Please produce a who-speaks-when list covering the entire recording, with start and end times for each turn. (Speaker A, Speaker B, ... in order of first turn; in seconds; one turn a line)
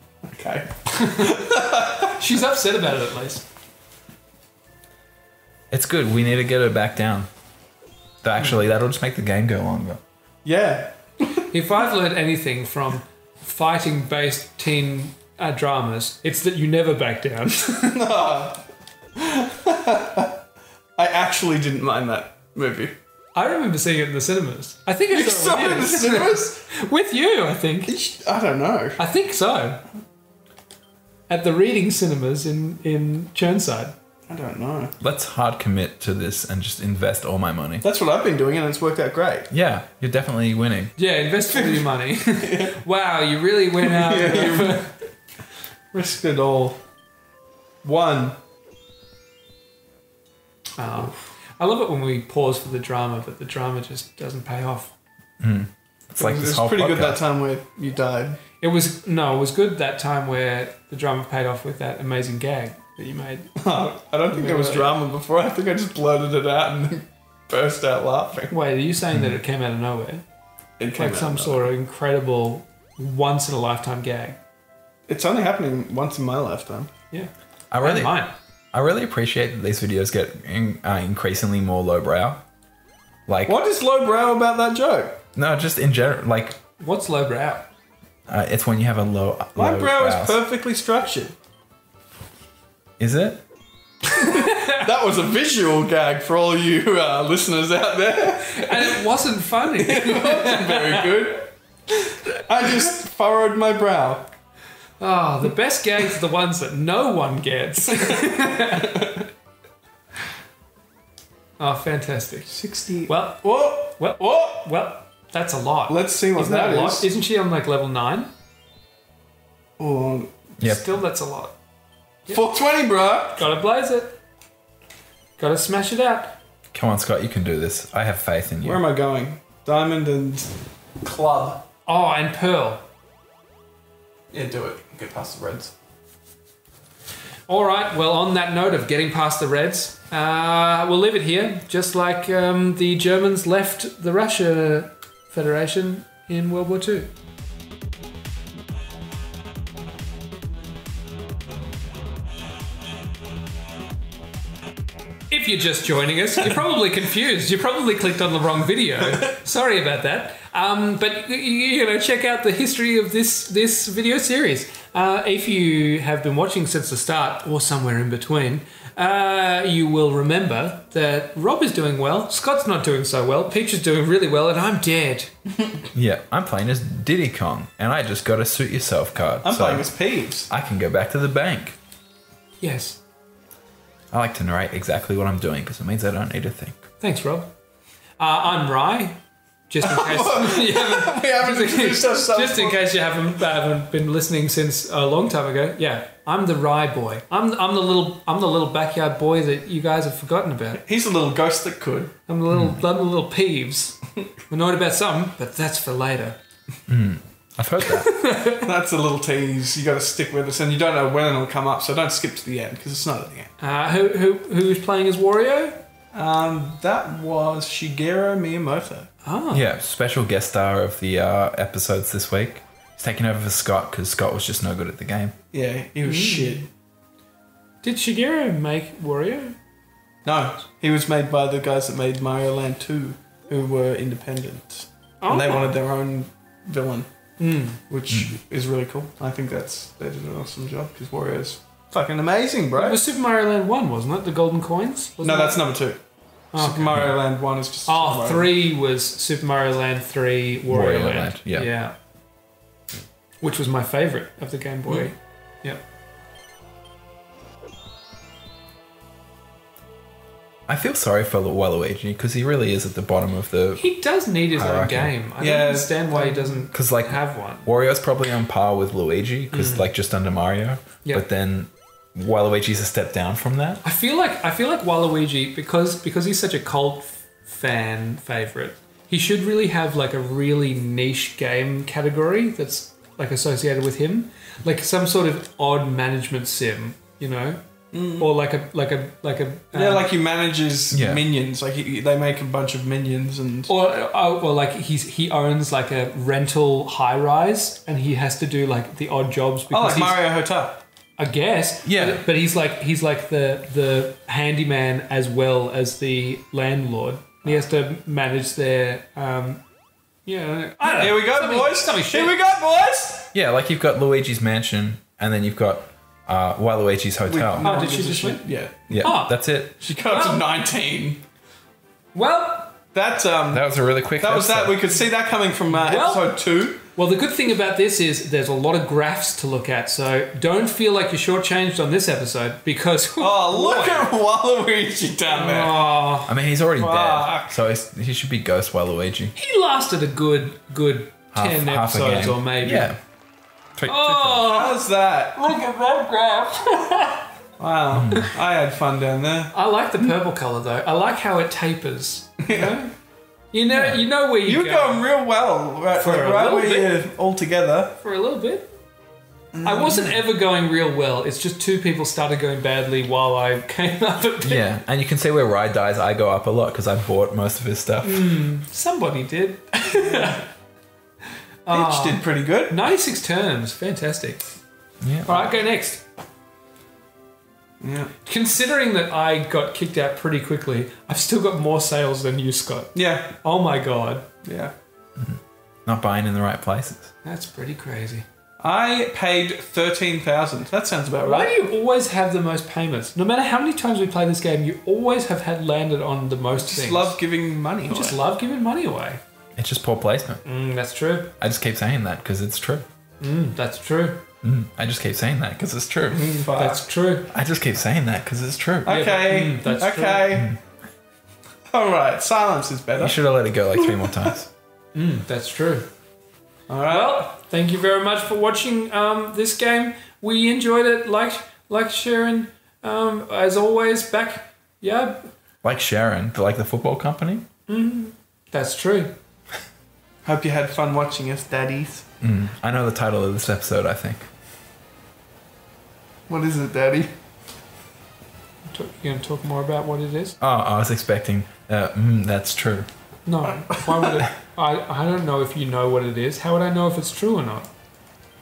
Speaker A: 0.3-2.1
Speaker B: 0.9-1.4
Speaker B: 2.1-3.4
Speaker C: 5.7-7.3
Speaker C: 8.2-10.0
Speaker A: 10.4-11.4
Speaker B: 11.5-17.9
Speaker A: 17.7-18.6
Speaker A: 19.2-20.4
Speaker A: 21.0-22.9
Speaker B: 23.3-27.9
Speaker A: 25.1-26.6
Speaker A: 27.9-29.0
Speaker B: 29.0-29.8
Speaker B: 31.3-33.9
Speaker A: 34.3-34.9
Speaker C: 35.0-37.8
Speaker A: 37.8-39.5
Speaker C: 39.5-41.0
Speaker B: 41.0-45.0
Speaker A: 41.5-42.8
Speaker A: 43.8-44.9
Speaker A: 45.9-46.8
Speaker A: 47.8-48.4
Speaker B: 50.8-54.9
Speaker C: 55.4-57.2
Speaker A: 56.2-58.4
Speaker B: 58.6-63.5
Speaker A: 63.6-68.5
Speaker B: 64.3-65.0
Speaker B: 68.5-70.2
Speaker A: 70.8-71.7
Speaker B: 71.0-74.4
Speaker A: 75.1-76.9
Speaker B: 77.1-78.3
Speaker C: 77.7-78.2
Speaker C: 78.7-82.4
Speaker C: 83.3-83.6
Speaker A: 83.5-85.2
Speaker C: 85.3-86.6
Speaker B: 86.8-87.7
Speaker C: 88.3-90.4
Speaker A: 89.6-91.3
Speaker C: 93.0-93.4
Speaker B: 94.0-94.9
Speaker A: 94.2-99.0
Speaker B: 98.5-101.1
Speaker A: 99.7-104.3
Speaker B: 105.0-109.2
Speaker A: 107.8-109.2
Speaker B: 111.6-112.5
Speaker A: 112.5-114.6
Speaker B: 113.1-118.3
Speaker A: 115.9-117.1
Speaker A: 119.8-120.3
Speaker B: 120.6-121.5
Speaker C: 120.6-120.9
Speaker A: 122.3-123.4
Speaker B: 123.4-124.2
Speaker B: 125.4-126.4
Speaker C: 126.7-128.8
Speaker A: 128.6-130.5
Speaker A: 131.0-131.6
Speaker B: 131.9-132.8
Speaker A: 134.3-135.7
Speaker B: 137.5-147.1
Speaker B: 155.3-175.3
Speaker C: 175.9-179.9
Speaker A: 179.4-180.5
Speaker C: 180.5-181.8
Speaker B: 182.6-183.0
Speaker C: 184.1-186.8
Speaker B: 187.0-187.5
Speaker B: 188.2-189.2
Speaker B: 189.7-200.8
Speaker A: 189.8-193.0
Speaker A: 200.8-202.1
Speaker B: 202.3-206.4
Speaker C: 202.5-202.8
Speaker C: 206.9-208.1
Speaker B: 207.8-208.7
Speaker A: 208.6-213.5
Speaker B: 213.6-215.8
Speaker A: 216.1-219.1
Speaker B: 219.2-219.6
Speaker C: 219.5-225.3
Speaker A: 225.5-226.7
Speaker B: 226.0-226.6
Speaker B: 227.8-229.6
Speaker A: 230.2-237.1
Speaker B: 235.2-235.8
Speaker B: 237.4-237.8
Speaker A: 237.9-243.0
Speaker B: 242.8-245.6
Speaker A: 245.2-246.0
Speaker B: 246.5-247.1
Speaker A: 246.5-248.5
Speaker B: 247.9-251.9
Speaker C: 250.7-251.7
Speaker B: 253.4-255.8
Speaker C: 260.7-263.8
Speaker B: 263.8-267.7
Speaker C: 264.5-265.1
Speaker A: 265.4-266.7
Speaker C: 266.7-273.8
Speaker B: 269.5-269.9
Speaker B: 273.8-287.6
Speaker A: 287.9-288.3
Speaker B: 288.2-290.1
Speaker A: 289.7-293.7
Speaker C: 290.9-291.2
Speaker B: 293.7-300.2
Speaker A: 299.7-300.8
Speaker B: 301.2-309.6
Speaker C: 301.9-302.2
Speaker B: 310.2-312.4
Speaker A: 310.8-313.3
Speaker C: 313.3-317.6
Speaker A: 317.2-319.1
Speaker B: 317.6-318.4
Speaker C: 318.9-319.8
Speaker B: 319.0-320.4
Speaker A: 319.8-321.2
Speaker B: 322.1-322.7
Speaker A: 322.9-323.6
Speaker C: 323.5-324.8
Speaker A: 324.2-326.8
Speaker B: 325.7-326.4
Speaker B: 326.9-334.1
Speaker A: 333.2-336.0
Speaker B: 335.3-336.3
Speaker C: 336.2-339.3
Speaker A: 336.8-337.5
Speaker B: 339.3-342.9
Speaker C: 341.3-343.0
Speaker C: 343.8-344.5
Speaker B: 343.9-347.3
Speaker A: 344.5-345.4
Speaker A: 347.6-349.5
Speaker C: 347.9-348.3
Speaker B: 349.5-352.9
Speaker A: 352.4-352.7
Speaker B: 353.5-355.1
Speaker C: 353.7-354.0
Speaker A: 354.4-358.0
Speaker B: 355.9-357.0
Speaker B: 358.0-358.7
Speaker A: 359.5-360.2
Speaker B: 359.6-364.7
Speaker C: 364.4-368.4
Speaker B: 368.0-370.4
Speaker A: 369.9-370.3
Speaker B: 371.7-374.4
Speaker A: 371.7-372.8
Speaker C: 375.0-375.3
Speaker B: 375.2-376.0
Speaker A: 377.8-378.1
Speaker B: 378.2-384.2
Speaker A: 382.9-383.3
Speaker A: 384.4-384.7
Speaker C: 385.2-387.1
Speaker B: 387.2-388.2
Speaker A: 388.6-391.6
Speaker B: 391.2-397.2
Speaker A: 396.5-398.2
Speaker B: 397.9-399.2
Speaker C: 399.6-400.4
Speaker B: 400.4-401.3
Speaker C: 401.4-402.8
Speaker B: 403.2-404.2
Speaker C: 404.4-406.4
Speaker A: 406.1-406.8
Speaker B: 406.5-407.3
Speaker C: 407.3-408.9
Speaker A: 408.8-410.5
Speaker B: 408.9-410.4
Speaker A: 411.7-413.2
Speaker C: 413.0-414.5
Speaker A: 413.9-414.3
Speaker B: 414.9-415.9
Speaker A: 416.7-417.3
Speaker B: 416.9-425.3
Speaker C: 425.6-427.4
Speaker B: 427.7-429.1
Speaker A: 430.2-432.1
Speaker C: 432.2-434.3
Speaker A: 436.3-437.1
Speaker B: 438.7-440.4
Speaker C: 440.4-442.9
Speaker B: 443.2-447.7
Speaker A: 443.7-444.2